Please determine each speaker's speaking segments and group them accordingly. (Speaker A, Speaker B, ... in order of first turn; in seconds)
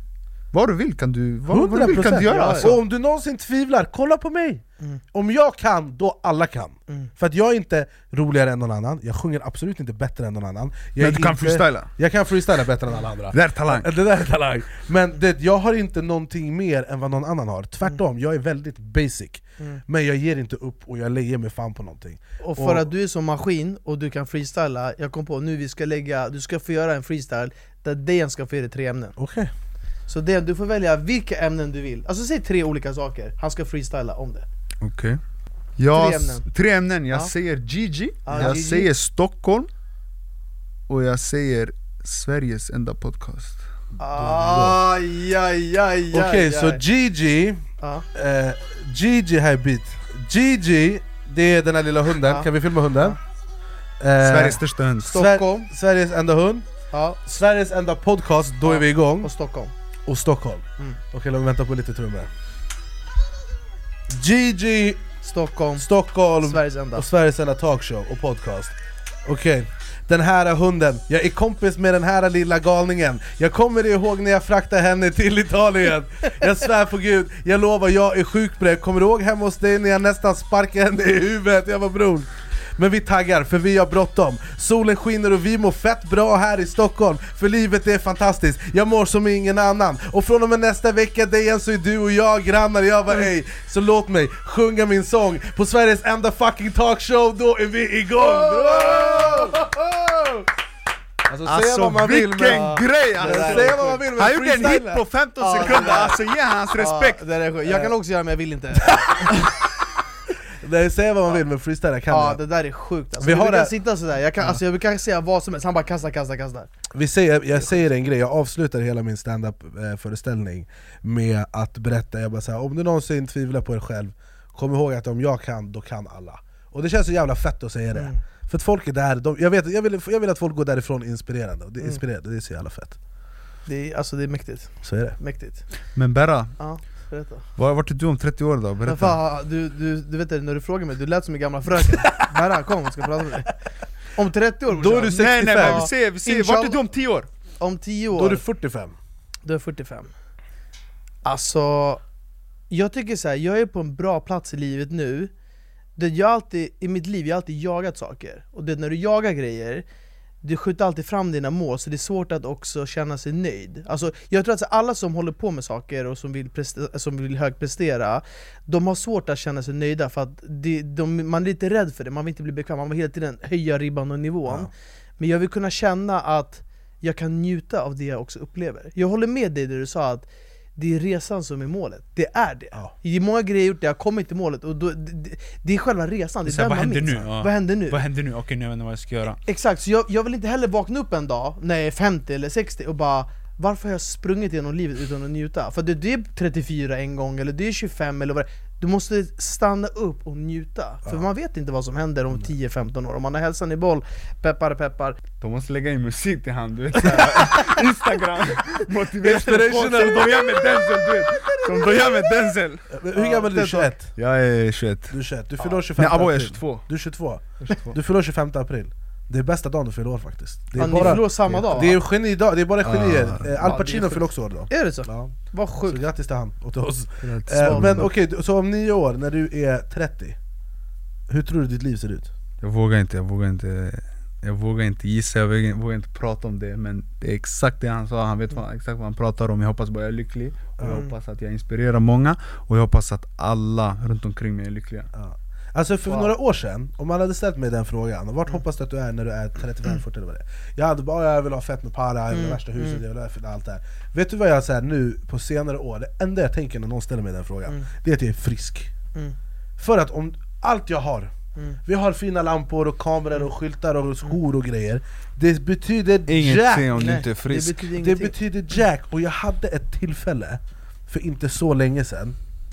Speaker A: 0.5-2.7, 11.0-11.9, 13.3-13.9, 34.8-35.2, 35.8-39.7, 40.9-43.6, 54.2-55.2, 101.5-107.2, 135.9-136.5, 137.6-139.2, 145.1-147.3, 186.4-189.4, 205.4-212.9, 213.5-215.2, 216.0-216.9, 217.7-217.9, 220.8-221.9, 222.8-223.5, 227.2-228.1, 232.6-245.1, 266.3-267.9
Speaker B: 1.5-22.9, 29.2-29.5, 38.3-38.6, 44.0-44.8, 46.1-53.2, 54.0-56.6, 57.2-59.3, 60.0-62.3, 64.1-65.1, 65.8-99.7, 101.2-105.0, 107.6-107.9, 108.8-109.4, 110.5-112.4, 113.2-113.7, 116.9-132.9, 134.8-135.2, 144.7-145.8, 148.1-148.9, 209.2-210.6, 212.9-214.1, 215.1-230.4, 231.3-232.3, 240.8-241.0, 245.1-258.9, 259.8-267.2, 267.9-272.4
Speaker C: 2.3-2.7, 22.4-29.2, 30.1-34.5, 35.9-36.5, 38.2-38.9, 44.0-46.8, 47.8-48.0, 55.1-55.7, 56.9-57.2, 58.6-59.7, 65.2-67.0, 98.2-100.4, 102.4-104.0, 105.4-106.2, 106.8-109.5, 112.1-116.7, 127.9-128.2, 133.7-135.7, 136.6-137.5, 138.8-146.8, 147.6-148.4, 149.4-150.1, 151.2-152.0, 152.7-155.3, 156.0-159.8, 160.4-180.2, 180.8-188.0, 189.5-205.2, 207.0-207.7, 213.1-213.8, 220.8-222.0, 223.6-226.0, 227.6-228.1, 240.8-241.1, 252.3-253.0, 266.9-268.4